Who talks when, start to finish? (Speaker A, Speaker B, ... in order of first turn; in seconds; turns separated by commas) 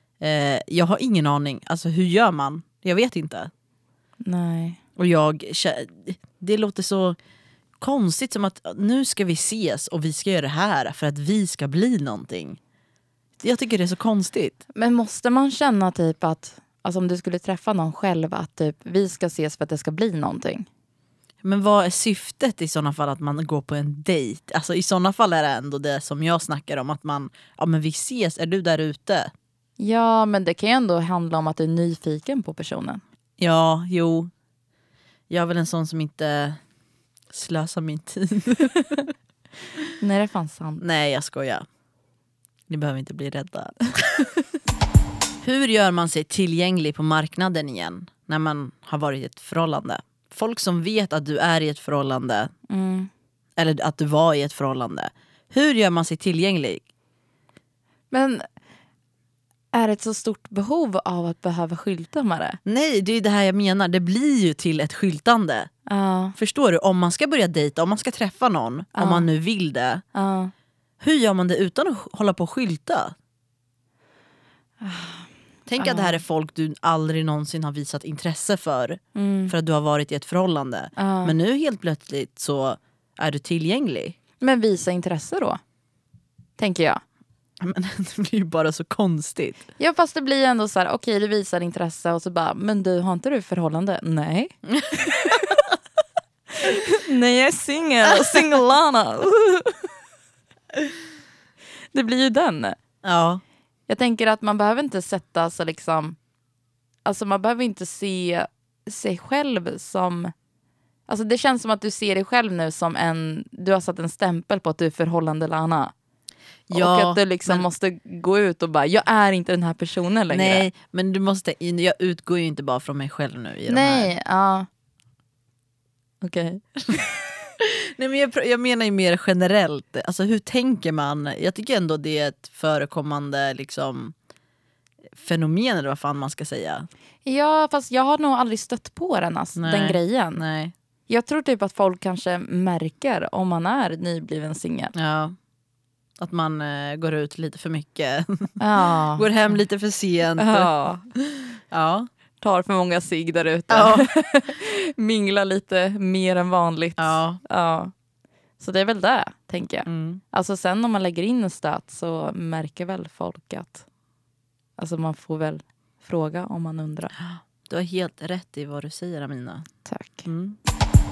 Speaker A: 0.2-3.5, Speaker B: 4.2-4.8, Speaker A: 5.0-7.2, Speaker A: 7.8-12.6, Speaker A: 13.4-14.6, Speaker B: 14.7-20.7, Speaker A: 21.4-29.3, Speaker B: 29.8-33.0, Speaker A: 33.4-34.3, Speaker A: 35.3-36.6, Speaker A: 37.3-39.1, Speaker B: 40.0-40.8, Speaker A: 40.8-41.6, Speaker A: 42.7-44.3, Speaker A: 45.4-52.5, Speaker B: 52.7-53.1, Speaker A: 53.6-56.8, Speaker B: 58.1-58.5, Speaker B: 59.7-62.6, Speaker A: 62.6-65.7, Speaker B: 65.9-66.3, Speaker A: 66.3-70.0, Speaker B: 68.9-69.3, Speaker B: 70.1-70.5, Speaker A: 71.0-73.1, Speaker B: 74.8-75.3, Speaker A: 75.7-84.2, Speaker B: 75.8-76.2, Speaker B: 79.1-79.5, Speaker B: 81.0-81.3, Speaker B: 84.4-85.6, Speaker B: 86.6-87.0, Speaker A: 87.6-89.6, Speaker B: 89.8-95.7, Speaker A: 94.7-95.5, Speaker B: 96.6-99.9, Speaker A: 98.1-98.5, Speaker B: 101.9-102.8, Speaker A: 103.0-103.4, Speaker B: 103.9-106.2, Speaker B: 107.0-110.3, Speaker B: 111.1-115.9, Speaker A: 116.7-117.7, Speaker B: 116.7-120.7, Speaker A: 120.3-124.1, Speaker B: 123.7-124.7, Speaker B: 126.2-127.0, Speaker A: 127.6-134.1, Speaker A: 135.2-136.9, Speaker B: 137.2-140.4, Speaker A: 139.6-140.7, Speaker B: 141.1-144.9, Speaker A: 144.9-145.3, Speaker A: 146.2-152.1, Speaker B: 148.6-149.3, Speaker B: 150.4-151.0, Speaker B: 152.4-157.9, Speaker A: 153.7-154.1, Speaker A: 157.0-157.4, Speaker B: 158.6-163.8, Speaker A: 159.9-160.2, Speaker B: 164.8-167.1, Speaker A: 167.2-169.7, Speaker B: 169.8-170.3, Speaker A: 170.2-170.6